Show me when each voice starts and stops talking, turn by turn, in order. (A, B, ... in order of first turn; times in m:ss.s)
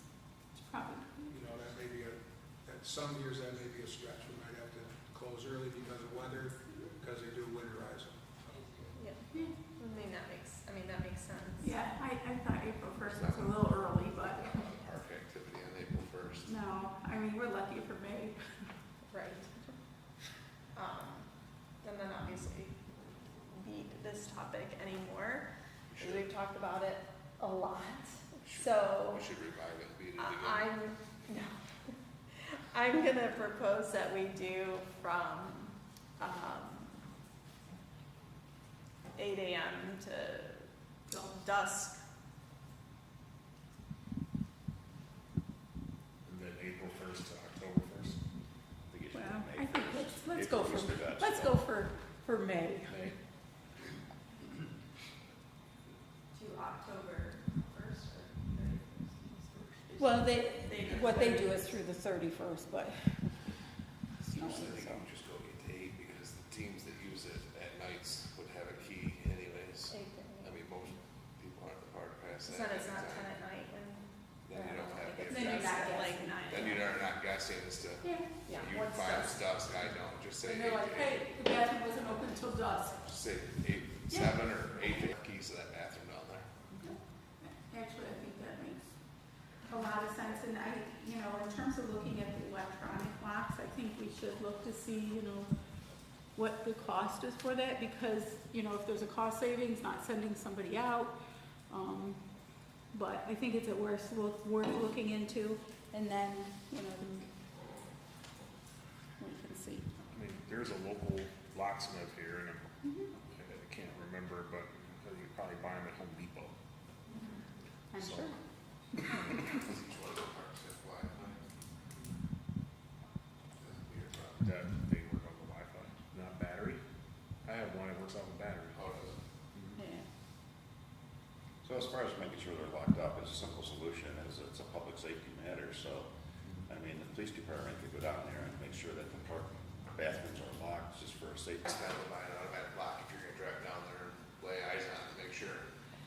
0:00.5-0:01.3 A
0:01.3-0:08.3 B
0:09.0-0:11.7 C
0:09.3-0:09.6 A
0:11.6-0:14.6 A
0:13.1-0:13.6 D
0:14.2-0:16.5 D
0:16.4-0:18.4 A
0:19.1-0:19.8 C
0:20.7-0:22.8 C
0:23.5-0:29.3 C
0:25.9-0:26.3 D
0:28.4-0:30.7 D
0:30.2-0:31.6 C
0:32.4-0:37.0 C
0:39.2-0:42.0 C
0:46.2-0:48.2 E
0:48.9-0:51.7 F
0:49.1-0:53.0 A
0:52.9-0:53.2 E
0:56.3-1:01.7 C
1:00.0-1:03.5 A
1:00.7-1:01.1 D
1:04.2-1:05.1 A
1:04.3-1:13.4 D
1:09.9-1:10.6 C
1:12.4-1:16.9 C
1:14.5-1:15.6 D
1:15.3-1:16.5 A
1:16.5-1:21.3 D
1:18.0-1:18.3 A
1:18.4-1:19.4 C
1:20.4-1:23.0 A
1:22.9-1:26.5 D
1:24.1-1:24.3 A
1:26.7-1:28.8 A
1:29.7-1:35.5 A
1:36.3-1:41.2 A
1:41.7-1:42.3 A
1:42.9-1:47.3 A
1:49.2-1:49.9 A
1:50.1-1:56.5 E
1:52.8-1:53.1 A
1:57.9-1:58.4 A
1:58.0-1:58.4 E
1:59.0-1:59.6 E
1:59.4-2:01.4 D
2:03.6-2:04.5 D
2:04.4-2:06.8 E
2:07.4-2:08.9 E
2:08.7-2:09.2 D
2:09.6-2:09.8 E
2:09.8-2:10.0 A
2:11.6-2:16.1 F
2:16.7-2:21.8 F
2:21.6-2:25.7 D